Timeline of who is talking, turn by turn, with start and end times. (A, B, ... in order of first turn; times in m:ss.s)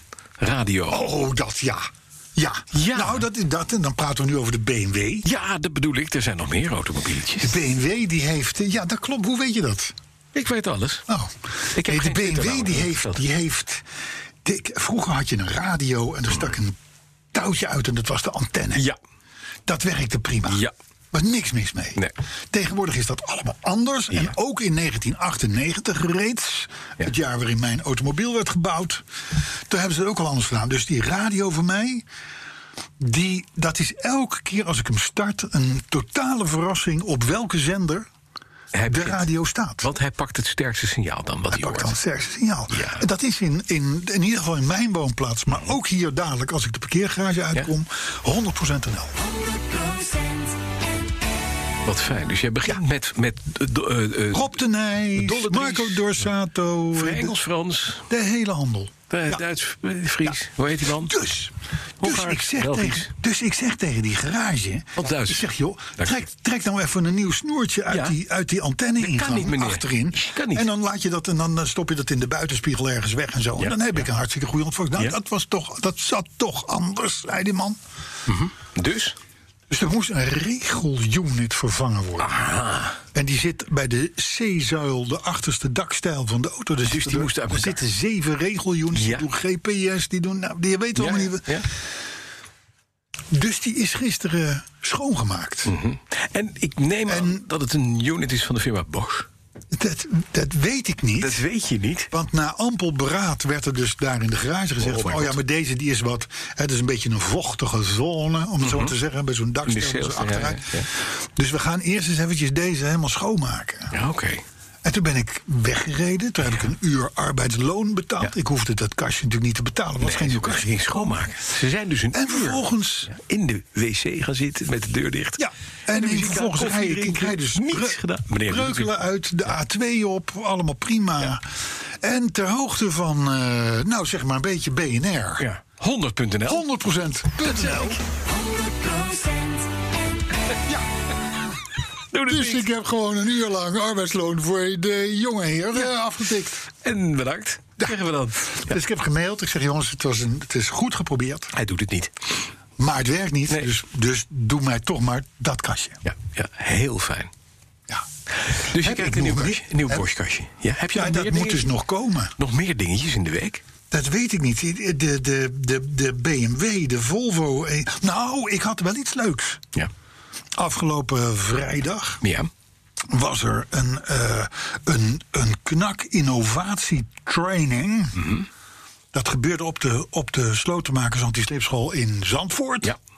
0:00.4-0:01.1 A
0:00.9-0:05.3 B
0:02.7-0:03.2 A
0:05.2-0:07.6 A
0:07.4-0:09.9 B
0:10.3-0:11.0 A
0:11.1-0:13.8 B
0:11.7-0:13.2 A
0:14.4-0:16.8 B
0:17.3-0:18.9 B
0:19.6-0:22.0 B
0:20.5-0:20.7 A
0:22.5-0:29.0 B
0:29.7-0:32.0 B
0:33.0-0:38.1 B
0:38.7-0:39.3 A
0:38.9-0:39.9 B
0:39.8-0:41.9 A
0:41.5-0:49.2 B
0:42.7-0:43.0 A
0:51.8-0:54.5 A
0:54.3-0:57.4 B
0:55.1-0:56.2 A
0:56.9-0:58.1 A
0:58.1-0:59.4 B
0:59.1-1:01.1 A
1:01.0-1:17.8 B
1:02.0-1:03.1 A
1:05.0-1:05.4 A
1:07.9-1:08.2 A
1:09.0-1:10.7 A
1:13.6-1:14.1 A
1:18.3-1:19.1 A
1:19.7-1:22.3 B
1:22.2-1:23.0 A
1:23.1-1:31.6 B
1:26.8-1:27.8 A
1:28.9-1:29.2 A
1:31.0-1:31.7 A
1:33.3-1:35.7 B
1:35.6-1:39.3 A
1:37.1-1:37.4 B
1:39.7-1:41.4 B
1:41.2-1:42.1 A
1:42.1-1:53.9 B
1:44.8-1:45.4 A
1:48.6-1:48.9 A
1:49.6-1:50.9 A
1:53.9-1:54.4 A
1:54.8-2:01.3 B
2:00.0-2:08.9 A
2:02.1-2:03.1 B
2:05.4-2:11.4 B
2:12.0-2:15.4 B
2:15.4-2:16.6 A
2:16.4-2:18.0 B
2:22.1-2:22.7 A
2:22.3-2:26.7 B
2:26.8-2:28.8 A
2:28.5-2:31.5 B
2:31.5-2:32.1 A
2:32.8-2:36.0 B
2:36.0-2:37.3 A
2:38.4-2:41.7 A
2:38.7-2:40.1 B
2:40.9-2:42.3 B
2:42.4-2:43.6 A
2:43.9-2:49.6 B
2:50.6-2:52.2 B
2:52.2-2:52.5 A
2:53.1-2:58.3 B
2:58.2-2:58.4 A
2:59.1-3:02.9 B